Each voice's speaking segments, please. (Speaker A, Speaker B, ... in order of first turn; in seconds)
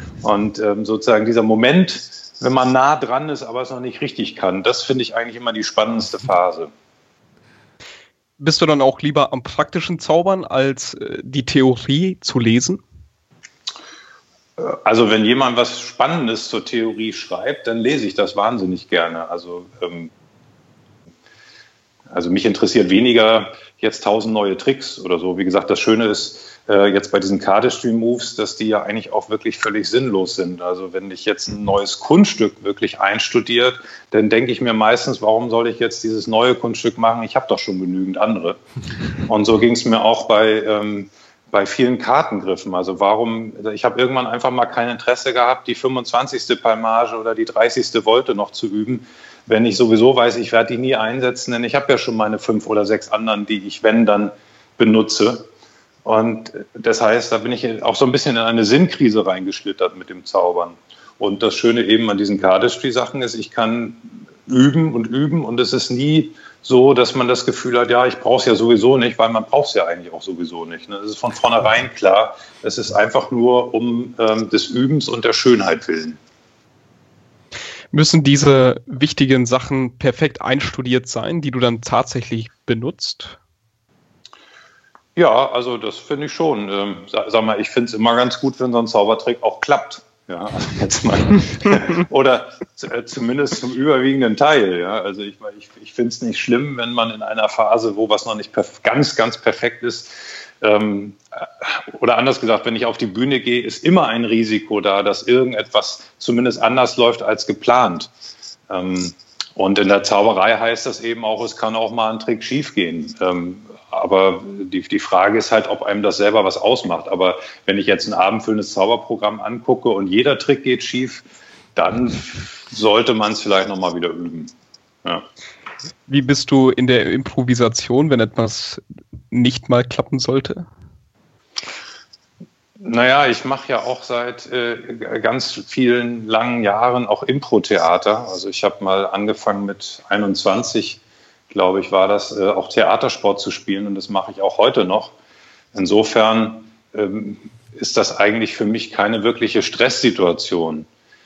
Speaker A: 0.2-6.7, 14.6-20.1, 22.1-38.6, 39.2-55.5, 56.0-76.2, 85.1-108.1, 108.7-125.2, 132.8-145.1, 145.7-150.9
Speaker B: 8.4-12.8, 77.9-83.4, 126.1-130.7